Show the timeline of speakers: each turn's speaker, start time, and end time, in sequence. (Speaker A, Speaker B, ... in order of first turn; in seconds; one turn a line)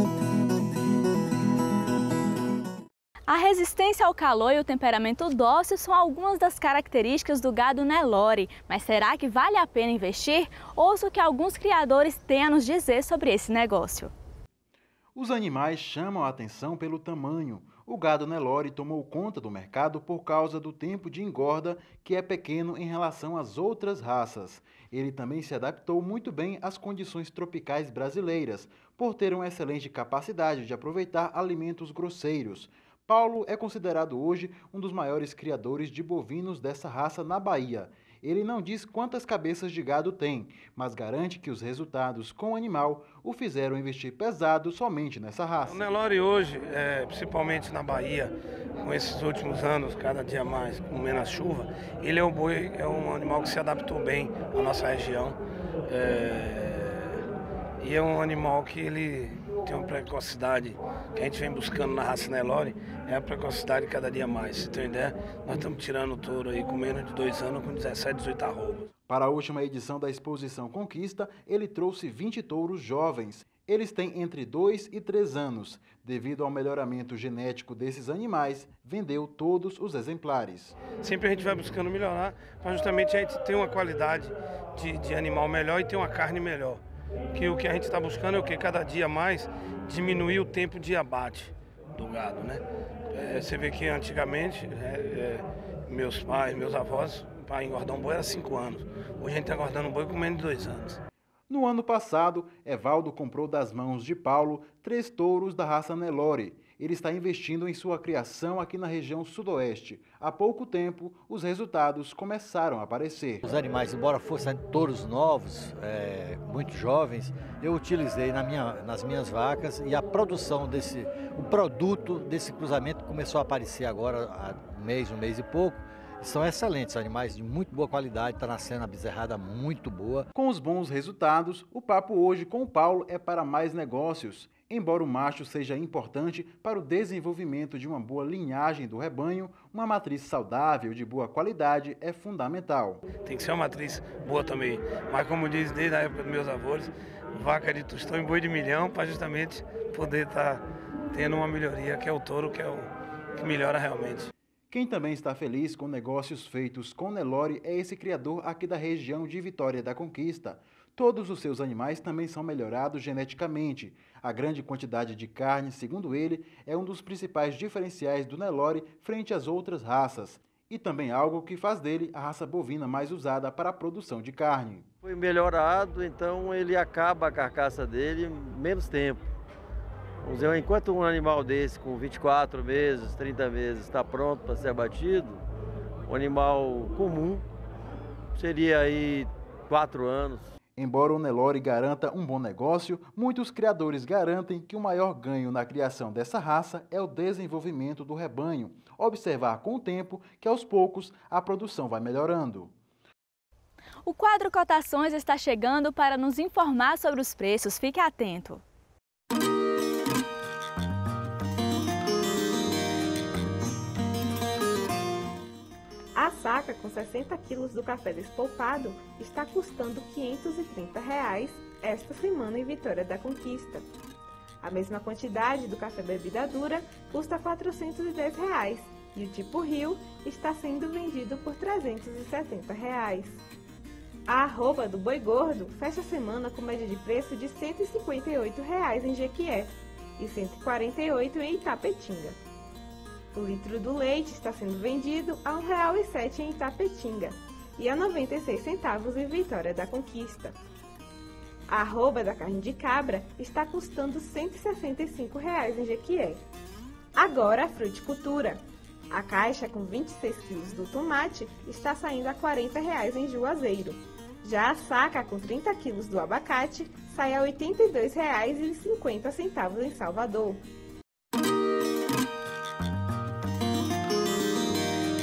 Speaker A: 3.3-14.1
Speaker B: 15.1-45.9
Speaker C: 45.7-57.2
Speaker C: 57.8-68.8
Speaker B: 69.1-80.8
Speaker C: 81.0-86.8
Speaker C: 87.3-101.0
Speaker B: 101.5-113.4
Speaker D: 113.4-130.3
Speaker B: 130.3-143.0
Speaker C: 143.2-154.3
Speaker B: 154.7-174.9
Speaker E: 175.0-179.2
Speaker E: 180.2-185.4
Speaker E: 186.1-187.4
Speaker E: 188.3-190.5
Speaker B: 190.8-202.7
Speaker A: 204.0-208.6
Speaker F: 216.2-223.8
Speaker F: 224.6-233.4
Speaker F: 234.3-242.4
Speaker F: 243.3-250.6
Speaker F: 251.7-256.4
Speaker F: 257.1-270.6